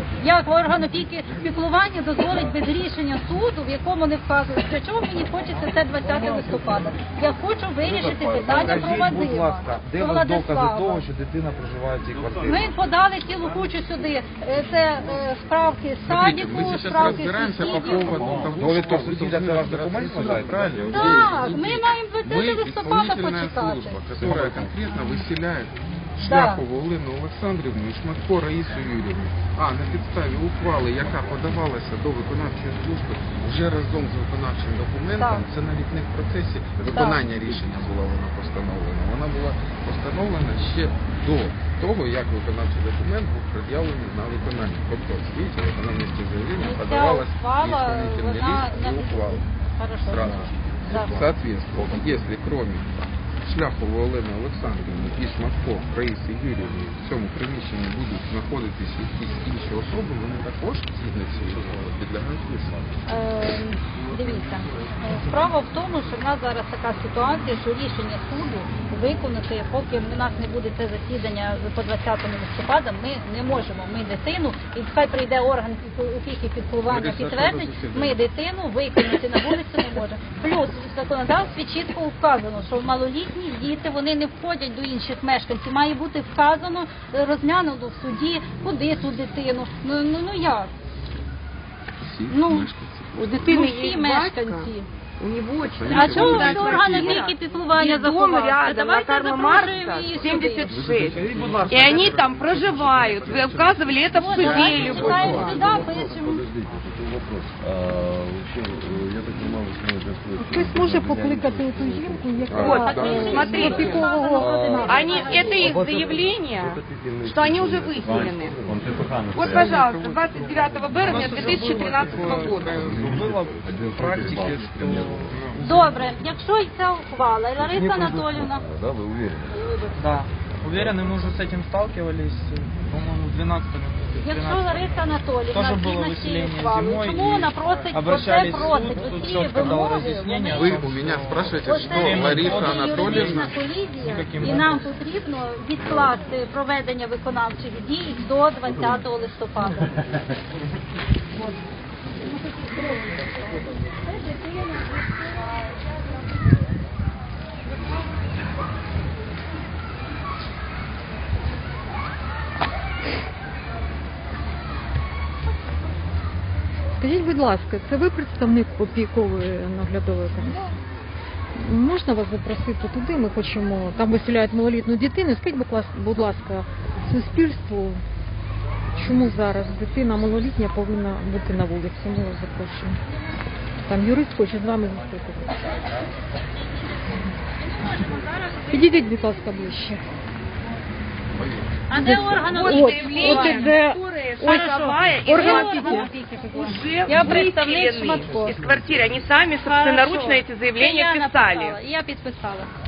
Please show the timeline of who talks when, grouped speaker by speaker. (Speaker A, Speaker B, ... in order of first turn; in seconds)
Speaker A: 0.2-11.0, 12.4-18.6, 20.9-24.0, 26.2-26.6, 35.1-35.4, 36.9-37.2, 46.6-51.1, 63.0-90.7, 92.3-92.7, 93.4-94.9, 95.9-100.7, 104.1-106.5, 112.7-115.7, 125.6-128.7, 134.2-140.8, 141.6-149.9, 152.2-153.6, 154.1-154.8, 187.6-189.5, 191.9-193.8, 194.4-198.5, 199.6-202.7
Speaker B: 6.0-6.7, 7.8-12.7, 17.9-21.7, 24.1-24.7, 100.8-102.2, 104.3-105.5, 114.3-115.0, 115.5-116.3, 119.5-126.0, 129.9-144.8
Speaker C: 16.1-49.4, 50.0-62.8, 76.8-78.3, 92.0-93.7, 95.6-97.2, 100.7-105.9, 112.4-113.6, 125.2-125.5, 140.5-143.5, 145.8-146.1, 191.3-191.7
Speaker D: 93.2-105.7, 112.5-114.3, 114.8-118.6, 119.3-123.0, 192.3-201.8
Speaker E: 104.8-112.3, 117.0-119.9, 122.3-125.3, 127.6-129.6
Speaker F: 110.4-115.7, 167.0-170.7, 171.6-178.0, 179.0-183.0, 183.9-185.6, 188.7-190.0, 191.9-194.7, 195.2-196.1